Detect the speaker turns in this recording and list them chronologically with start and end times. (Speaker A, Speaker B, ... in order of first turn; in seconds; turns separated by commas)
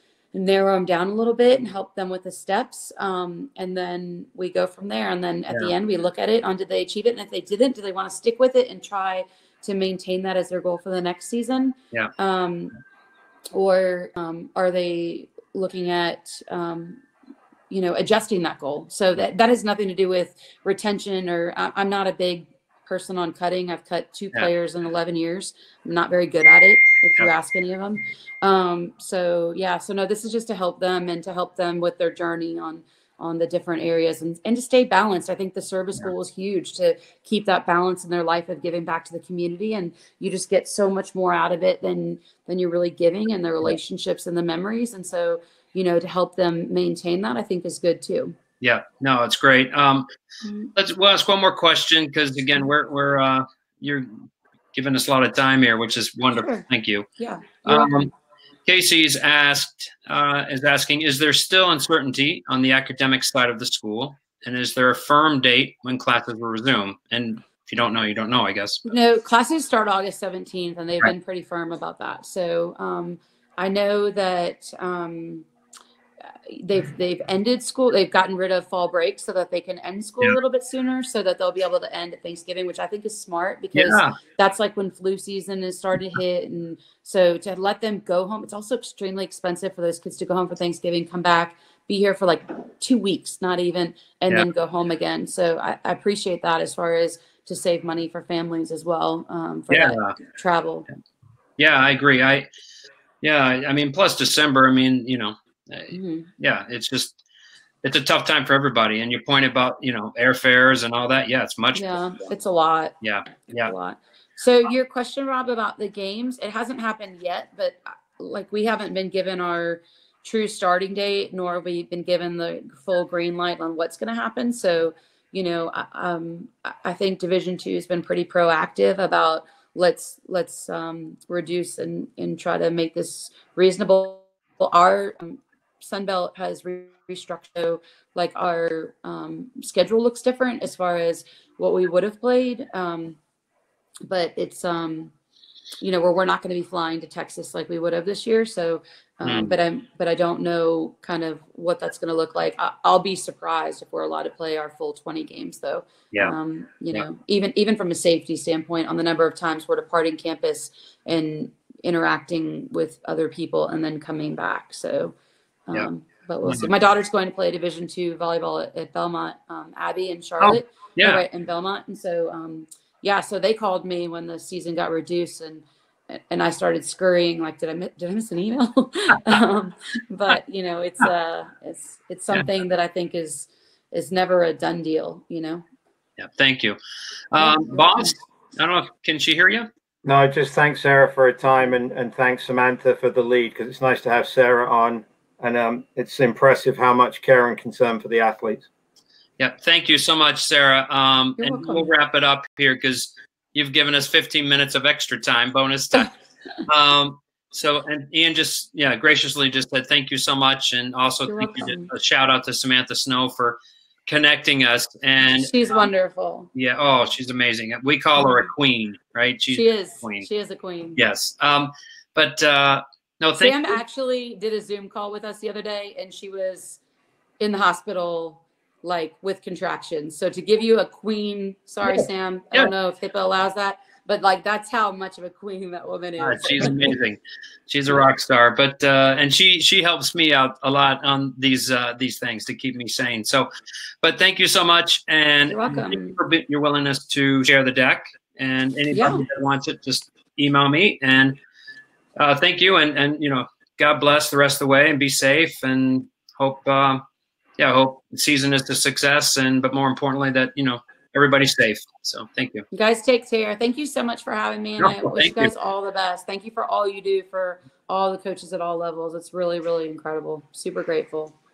Speaker A: 0.3-12.7, Speaker A: 13.5-17.0, Speaker A: 17.7-48.4, Speaker B: 48.6-50.1, Speaker A: 50.4-50.7, Speaker B: 50.8-54.2, Speaker B: 54.7-57.1, Speaker A: 56.3-56.6, Speaker A: 57.2-58.0, Speaker B: 57.6-58.1, Speaker B: 58.7-68.8, Speaker A: 68.8-75.5, Speaker A: 76.5-100.9, Speaker B: 83.8-84.2, Speaker B: 99.7-100.2, Speaker B: 101.6-102.5, Speaker B: 103.2-107.2, Speaker A: 105.9-106.3, Speaker B: 107.8-112.0, Speaker A: 111.8-112.9, Speaker B: 113.0-113.7, Speaker A: 113.5-143.2, Speaker A: 144.1-145.1, Speaker A: 145.8-165.1, Speaker B: 149.2-149.6, Speaker A: 165.7-185.7, Speaker B: 166.4-166.7, Speaker B: 170.4-171.2, Speaker B: 186.2-186.8, Speaker B: 187.3-189.7, Speaker A: 187.4-188.1, Speaker C: 190.1-198.7, Speaker B: 199.4-206.1, Speaker A: 201.4-201.9, Speaker B: 206.7-215.9, Speaker A: 211.3-211.9, Speaker A: 215.3-216.5, Speaker B: 216.5-220.3, Speaker A: 219.5-221.0, Speaker B: 221.0-223.8, Speaker A: 223.4-226.8, Speaker A: 227.4-236.9, Speaker B: 231.9-232.7, Speaker B: 236.2-243.5, Speaker B: 244.0-251.4, Speaker A: 245.5-246.2, Speaker A: 248.9-249.2, Speaker B: 252.2-257.0, Speaker B: 257.6-262.7, Speaker A: 262.7-271.3, Speaker B: 264.8-265.5